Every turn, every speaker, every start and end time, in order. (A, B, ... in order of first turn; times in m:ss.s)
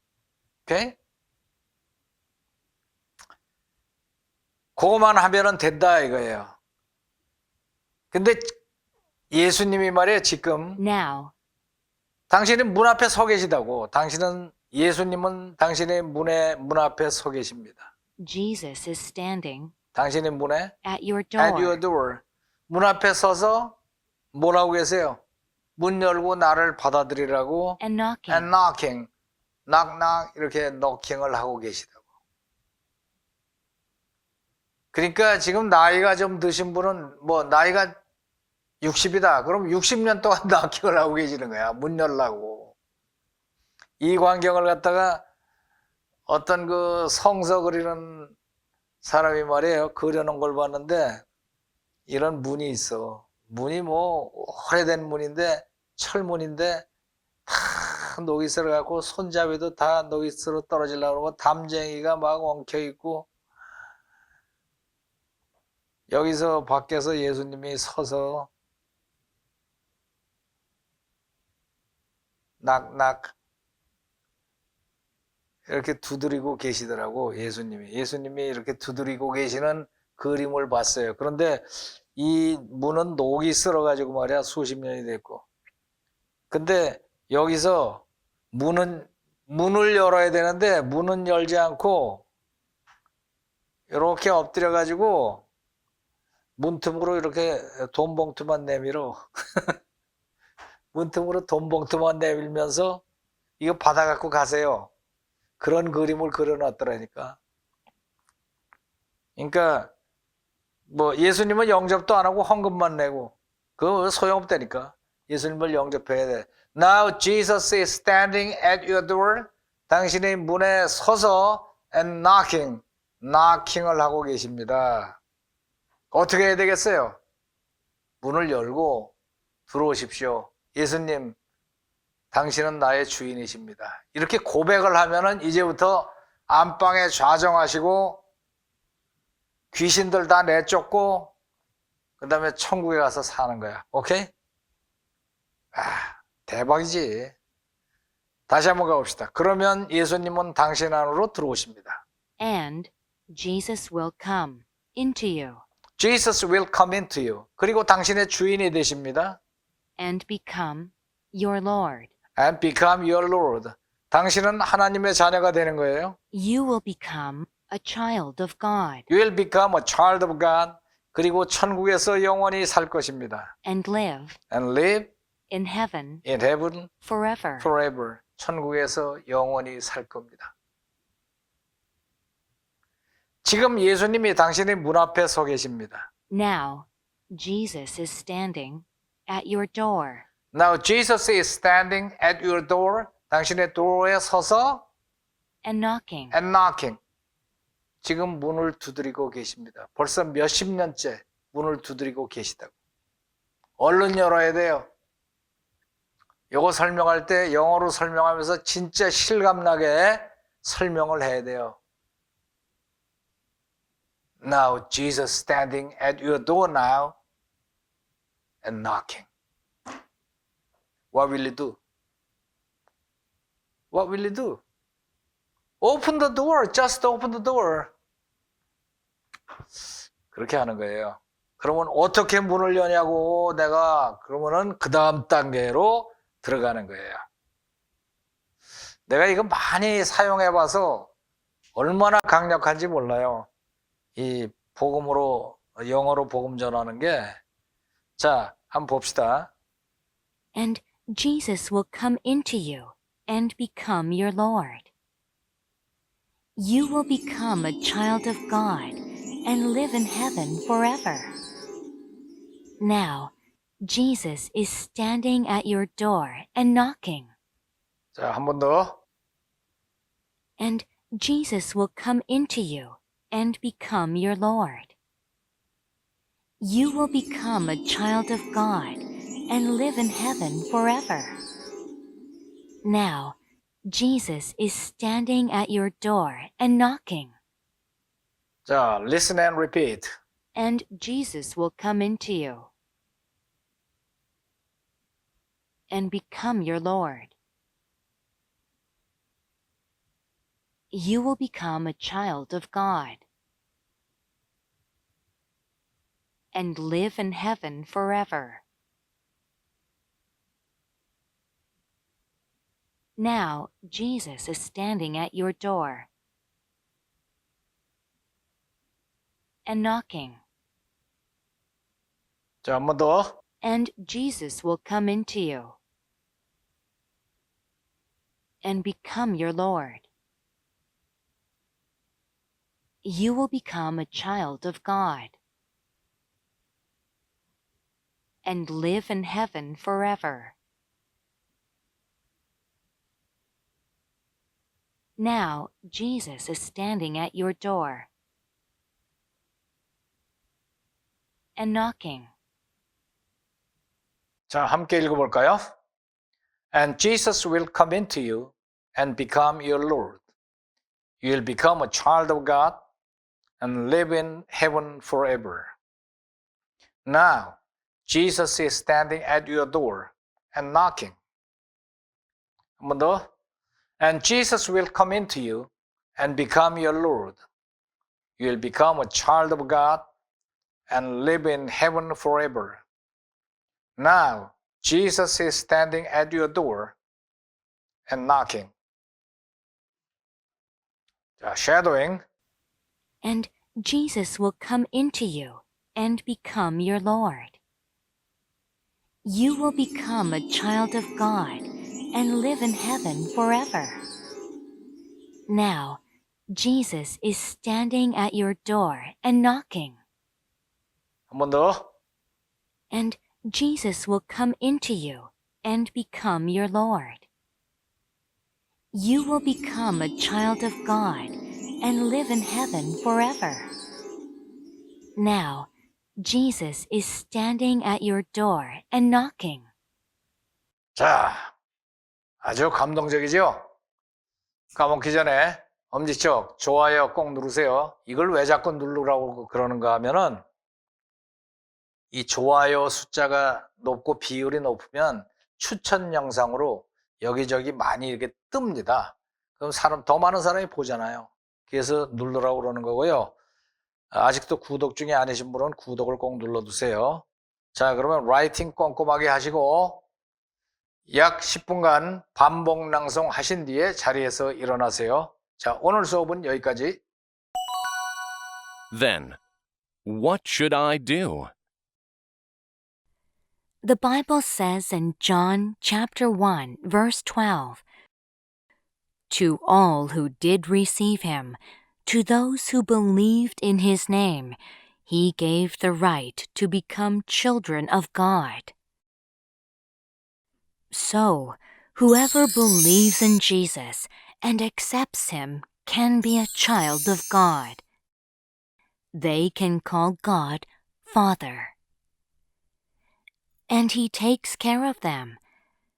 0:00.7-0:01.0 A
0:04.8-0:06.5 A
0:08.1-0:08.5 A
0:09.3-0:10.8 A
0:10.8-0:11.3 B
0:12.3-0:17.9 A
0:18.2-0:19.7 B
0:19.9-0:20.7 A
0:20.8-0:21.8 B
0:21.4-0:23.8 A
0:24.3-0:25.2 A
0:25.8-0:29.1 A
0:27.8-0:28.5 B
0:29.7-0:31.9 A
0:34.9-0:37.9 A
0:38.8-0:42.7 A
0:44.0-0:45.2 A
0:46.3-0:48.3 A
0:49.0-0:51.2 A
0:52.1-0:56.8 A
0:57.5-1:03.3 A
1:06.1-1:08.5 A
1:12.6-1:13.3 A
1:15.7-1:25.4 A
1:26.5-1:32.2 A
1:33.9-1:35.4 A
1:36.6-1:39.7 A
1:40.9-1:43.0 A
1:43.6-1:44.9 A
1:45.6-1:47.4 A
1:49.4-1:49.9 A
1:50.9-2:05.2 A
2:06.1-2:07.2 A
2:08.2-2:09.1 A
2:09.7-2:11.4 A
2:12.3-2:18.2 A
2:19.7-2:21.3 A
2:22.2-2:24.3 A
2:25.7-2:27.3 A
2:28.5-2:32.0 A
2:32.4-2:35.6 B
2:36.0-2:39.4 A
2:40.0-2:42.1 B
2:42.4-2:46.2 A
2:46.3-2:49.1 B
2:49.1-2:53.5 A
2:53.6-2:54.4 B
2:54.5-2:55.1 A
2:55.5-2:56.2 B
2:56.2-2:56.9 A
2:57.0-2:57.7 B
2:57.6-3:00.5 A
3:03.4-3:06.1 A
3:06.3-3:10.2 B
3:10.5-3:14.8 A
3:15.6-3:16.3 B
3:16.3-3:17.0 A
3:18.0-3:22.7 A
3:23.8-3:24.9 A
3:26.5-3:31.8 A
3:34.4-3:37.2 A
3:38.6-3:39.3 A
3:41.1-3:41.8 A
3:43.9-3:44.6 A
3:45.8-3:47.9 A
3:50.3-3:57.2 A
3:59.1-4:01.1 A
4:01.8-4:03.5 A
4:04.2-4:07.4 A
4:08.2-4:09.5 A
4:10.5-4:14.9 B
4:16.6-4:21.3 B
4:22.8-4:27.3 B
4:28.1-4:29.0 A
4:30.6-4:34.9 B
4:36.6-4:41.4 B
4:42.8-4:43.4 B
4:43.9-4:47.3 B
4:48.6-4:50.1 A
4:50.5-4:52.7 B
4:55.9-4:57.3 B
5:00.9-5:03.2 B
5:06.5-5:08.6 B
5:13.2-5:16.1 B
5:19.6-5:20.4 B
5:22.6-5:23.4 A
5:23.6-5:25.8 B
5:28.6-5:30.1 B
5:33.0-5:35.4 B
5:38.4-5:40.6 B
5:45.2-5:48.1 B
5:51.6-5:52.3 B
5:54.5-5:55.7 A
5:56.7-6:00.2 A
6:01.2-6:02.8 A
6:03.6-6:05.7 A
6:07.0-6:11.2 A
6:12.8-6:13.2 A
6:14.0-6:17.4 A
6:18.4-6:20.0 A
6:20.9-6:22.8 A
6:24.0-6:27.0 A
6:28.1-6:28.7 A
6:31.4-6:32.2 A
6:33.2-6:37.6 B
6:39.2-6:44.0 B
6:45.5-6:50.0 B
6:51.3-6:51.9 A
6:52.9-6:57.3 B
6:58.9-7:03.7 B
7:05.2-7:09.7 B
7:11.0-7:11.5 A
7:12.4-7:13.6 A
7:14.7-7:20.4 A
7:22.1-7:33.3 A
7:34.1-7:37.2 A
7:37.7-7:40.0 A
7:41.1-7:47.0 A
7:48.9-7:49.4 C
7:50.0-7:51.5 C
7:53.8-7:57.8 B
7:59.3-8:08.7 B
8:10.9-8:17.8 B
8:19.1-8:21.7 B
8:23.7-8:25.4 B